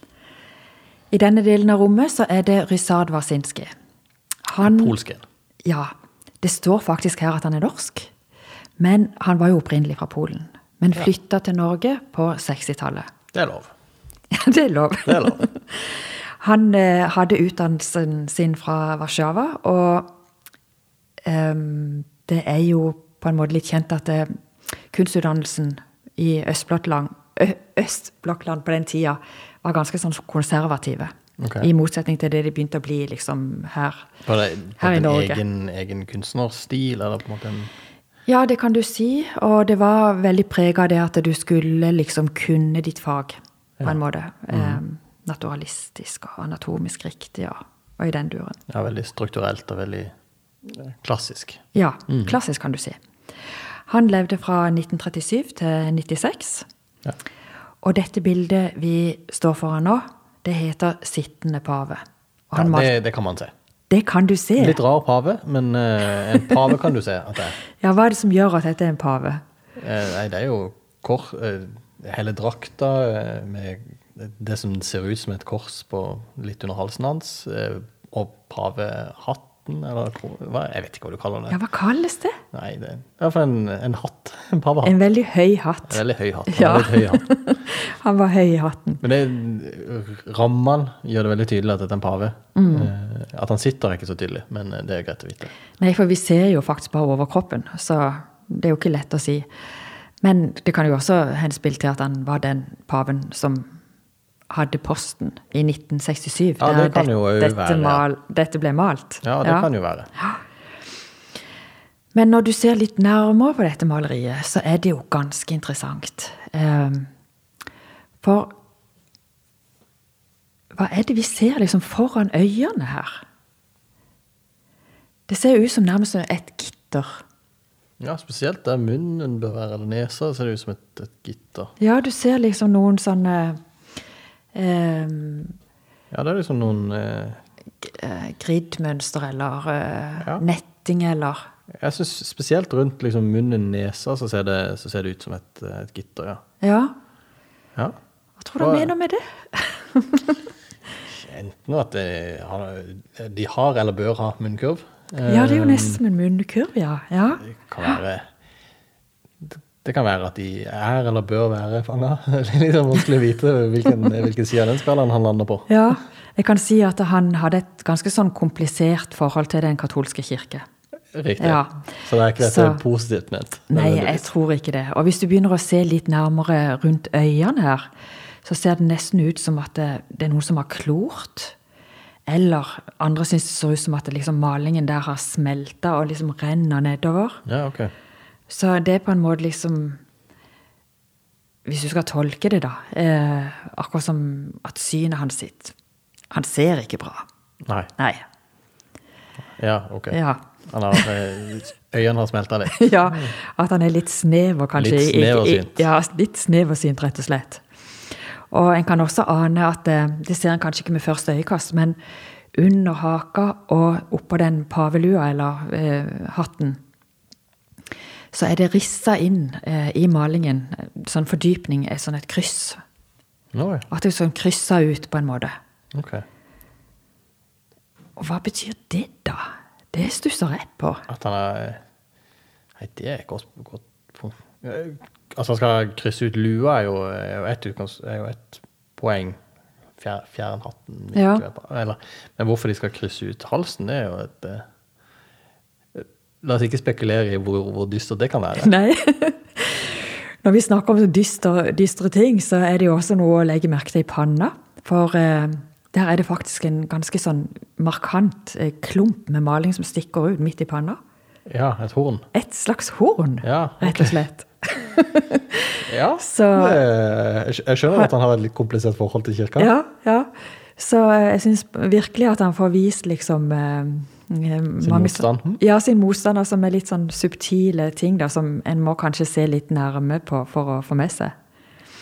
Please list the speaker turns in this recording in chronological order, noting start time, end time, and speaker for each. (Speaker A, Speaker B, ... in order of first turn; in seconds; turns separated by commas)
Speaker A: 1.1-3.7, Speaker A: 4.5-5.0, Speaker B: 4.6-5.2, Speaker A: 5.7-8.1, Speaker A: 8.8-13.1, Speaker B: 13.3-13.7, Speaker A: 14.3-20.1, Speaker B: 15.1-15.4, Speaker A: 21.3-34.1, Speaker B: 31.4-31.7, Speaker B: 34.2-37.7, Speaker A: 34.8-35.4, Speaker A: 38.3-48.6, Speaker B: 44.5-44.8, Speaker B: 48.7-50.1, Speaker B: 50.6-52.4, Speaker A: 51.7-53.0, Speaker A: 53.9-56.7, Speaker A: 57.8-62.9, Speaker B: 62.5-63.5, Speaker A: 63.9-64.8, Speaker B: 64.6-67.6, Speaker A: 67.8-69.4, Speaker B: 69.8-81.6, Speaker A: 81.5-82.4, Speaker B: 82.5-85.0, Speaker A: 84.8-89.0, Speaker B: 85.9-87.3, Speaker B: 89.0-95.5, Speaker A: 92.5-92.9, Speaker A: 95.8-99.5, Speaker A: 100.2-103.8, Speaker A: 104.5-110.4, Speaker B: 106.6-108.0, Speaker B: 109.2-110.1, Speaker A: 112.1-117.1, Speaker A: 118.2-118.5, Speaker A: 120.8-123.2, Speaker A: 125.3-127.2, Speaker B: 128.0-131.7, Speaker A: 131.8-133.6, Speaker A: 134.5-135.6, Speaker B: 136.1-137.4, Speaker A: 137.8-141.5, Speaker B: 140.2-140.4, Speaker B: 141.8-146.4, Speaker A: 146.6-146.9, Speaker A: 148.4-150.5, Speaker B: 148.6-148.9, Speaker B: 151.1-156.0, Speaker A: 155.3-158.0, Speaker B: 157.4-158.2, Speaker B: 159.4-165.7, Speaker A: 165.7-170.7, Speaker B: 171.2-174.3, Speaker A: 171.4-171.8, Speaker A: 172.4-172.8, Speaker A: 173.7-177.9, Speaker A: 178.4-181.6, Speaker A: 182.3-187.4, Speaker B: 187.5-187.9, Speaker A: 188.5-190.0, Speaker A: 191.7-195.7, Speaker A: 196.3-197.2, Speaker A: 198.0-198.2, Speaker B: 199.6-200.2, Speaker A: 200.1-201.1, Speaker B: 200.7-203.3, Speaker A: 202.7-207.6, Speaker B: 204.8-205.9, Speaker A: 208.5-212.0, Speaker A: 212.6-216.8, Speaker A: 218.3-222.8, Speaker B: 223.5-223.9, Speaker A: 223.9-225.5, Speaker B: 225.9-226.2, Speaker A: 228.2-231.1, Speaker B: 231.1-231.8, Speaker B: 232.8-239.4, Speaker B: 240.0-244.7, Speaker A: 241.1-241.4, Speaker B: 245.9-248.7, Speaker A: 248.6-261.0, Speaker B: 261.5-262.2, Speaker A: 262.3-266.8, Speaker B: 263.4-264.2, Speaker B: 265.9-269.7, Speaker A: 269.6-281.3, Speaker B: 274.8-275.6